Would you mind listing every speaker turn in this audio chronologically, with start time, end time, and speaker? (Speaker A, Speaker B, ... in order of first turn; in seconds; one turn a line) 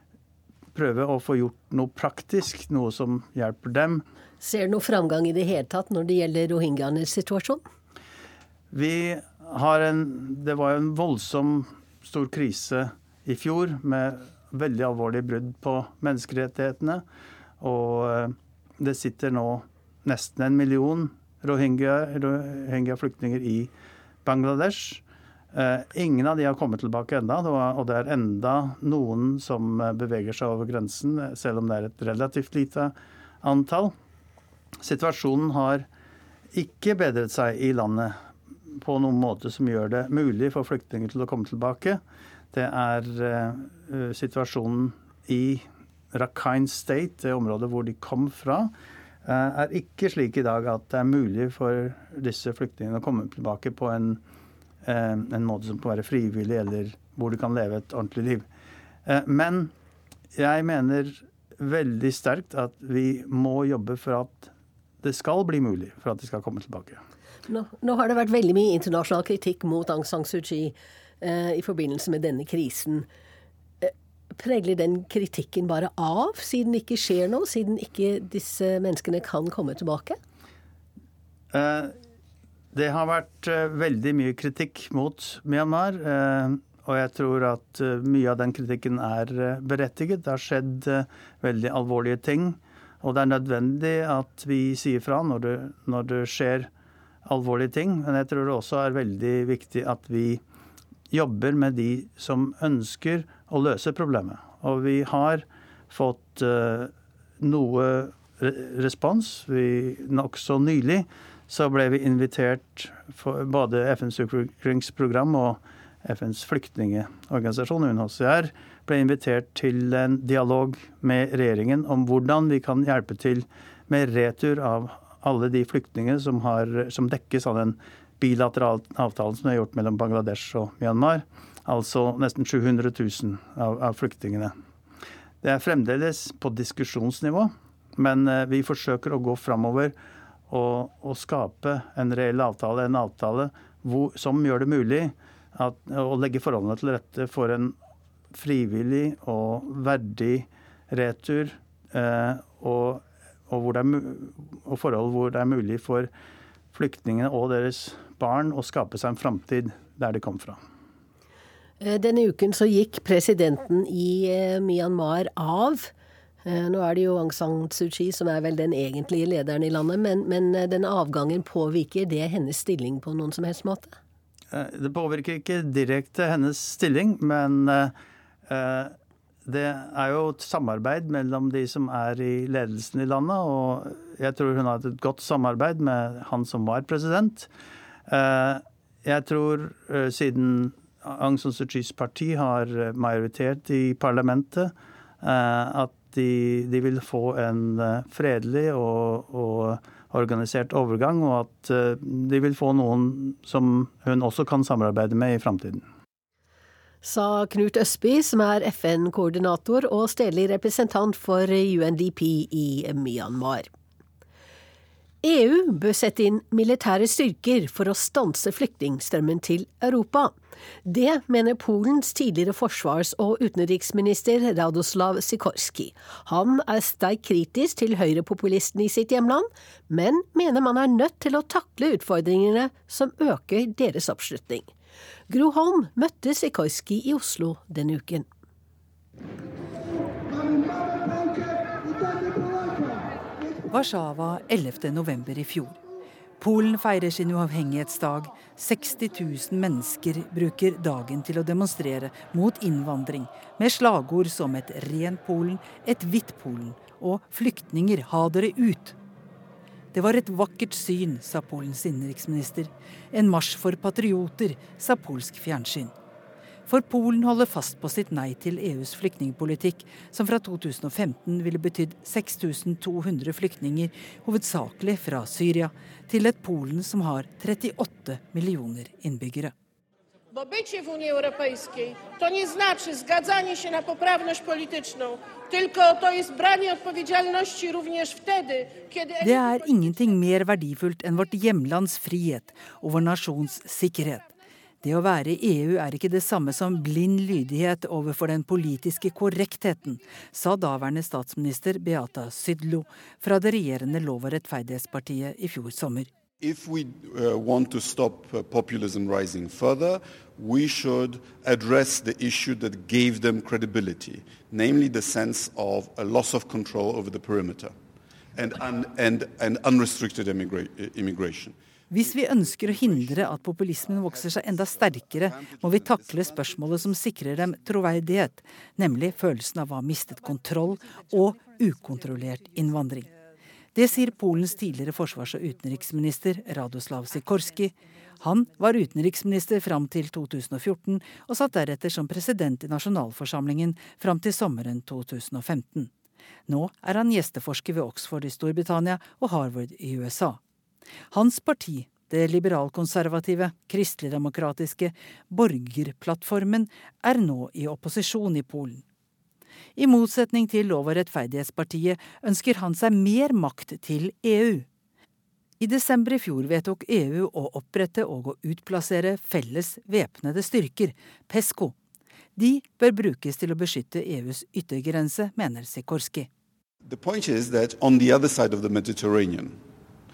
Speaker A: 0.7-4.0
Speaker B: 4.4-7.6
Speaker A: 8.7-17.0
Speaker A: 17.6-23.7
Speaker A: 24.2-25.0
Speaker A: 25.5-33.9
Speaker A: 34.8-35.9
Speaker A: 36.5-38.1
Speaker A: 38.7-42.0
Speaker A: 42.5-48.7
Speaker A: 49.2-54.2
Speaker A: 54.8-58.5
Speaker A: 59.0-59.7
Speaker A: 60.4-64.5
Speaker A: 65.0-67.0
Speaker B: 67.5-73.1
Speaker B: 73.8-80.2
Speaker A: 81.5-81.9
Speaker A: 82.7-96.7
Speaker A: 97.2-100.4
Speaker A: 101.1-134.5
Speaker A: 135.4-139.9
Speaker A: 140.5-147.8
Speaker A: 148.3-156.1
Speaker A: 156.7-160.6
Speaker B: 161.8-165.9
Speaker B: 166.4-173.9
Speaker A: 174.5-177.9
Speaker A: 178.5-178.9
Speaker A: 179.4-187.5
Speaker A: 188.1-205.8
Speaker B: 207.0-213.7
Speaker B: 215.2-234.7
Speaker B: 235.3-238.3
Speaker C: 243.7-245.8
Speaker C: 246.4-258.9
Speaker C: 259.9-265.9
Speaker C: 266.7-279.5
Speaker D: 280.3-289.6
Speaker C: 289.2-306.1
Speaker E: 306.4-317.7
Speaker E: 318.3-321.6
Speaker C: 321.9-333.1
Speaker E: 322.1-326.6
Speaker C: 333.7-345.9
Speaker C: 346.5-350.4
Speaker C: 351.1-358.8
Speaker C: 359.8-364.7
Speaker C: 365.6-371.8
Speaker C: 372.4-376.3
Speaker E: 376.8-379.6